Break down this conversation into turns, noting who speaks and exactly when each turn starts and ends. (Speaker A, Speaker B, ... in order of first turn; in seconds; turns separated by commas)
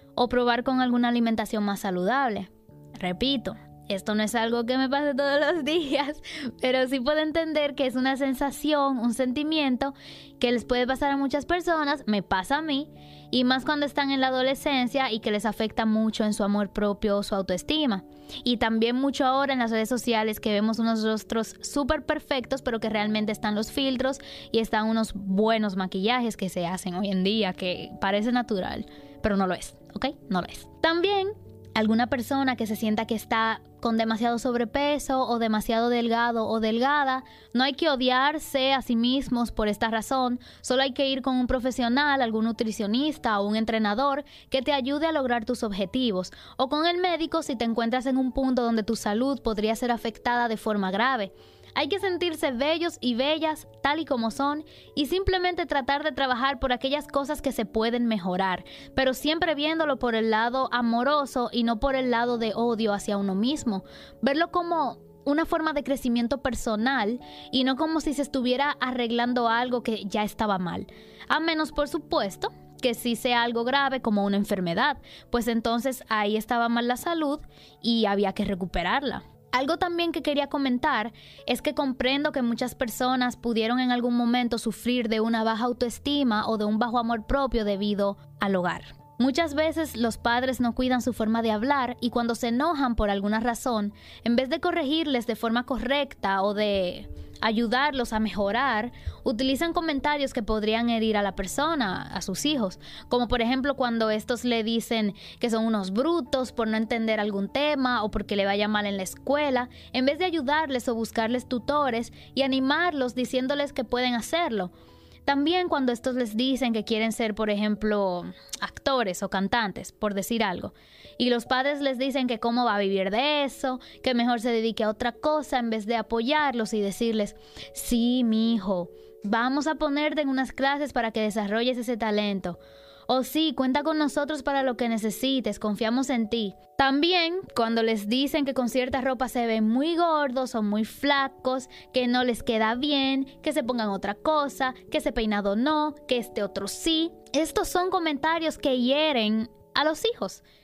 Speaker A: 0.1-114.7, Speaker A: 115.2-150.4